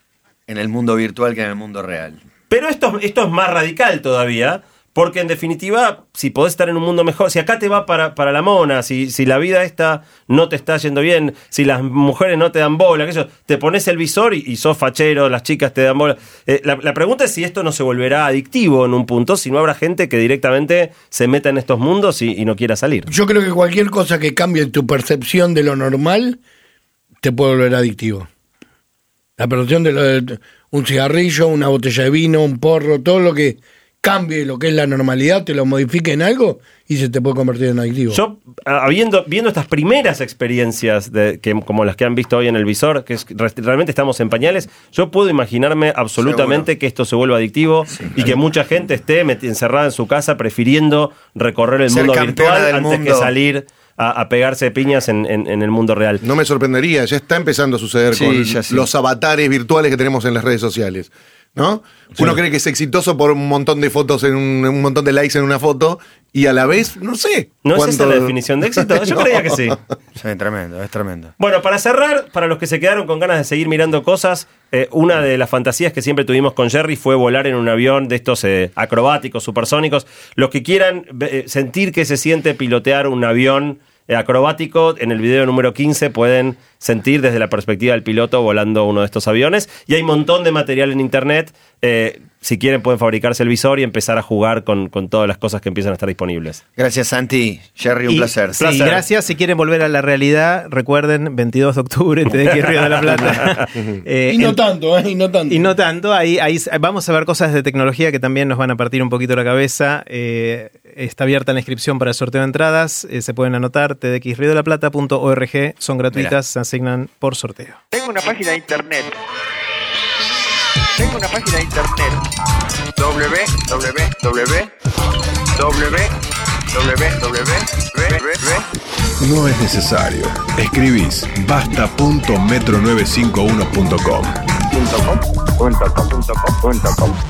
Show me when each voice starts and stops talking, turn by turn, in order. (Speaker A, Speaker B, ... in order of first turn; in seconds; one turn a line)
Speaker A: 0.5-2.2
Speaker B: 2.5-23.1
Speaker C: 23.1-26.4
Speaker C: 27.2-28.3
Speaker C: 29.4-38.2
Speaker B: 38.1-56.2
Speaker A: 46.2-46.7
Speaker A: 47.9-48.4
Speaker A: 51.9-53.3
Speaker D: 56.2-69.4
Speaker A: 58.1-58.9
Speaker B: 67.6-69.8
Speaker A: 70.2-71.3
Speaker B: 71.4-96.6
Speaker A: 96.8-99.0
Speaker E: 98.1-104.6
Speaker B: 102.3-103.6
Speaker C: 104.3-105.7
Speaker E: 105.5-117.8
Speaker F: 117.9-119.2
Speaker F: 121.0-122.2
Speaker F: 123.0-124.7
Speaker F: 125.5-126.1
Speaker F: 126.7-128.7
Speaker G: 129.2-134.4
Speaker F: 134.7-137.2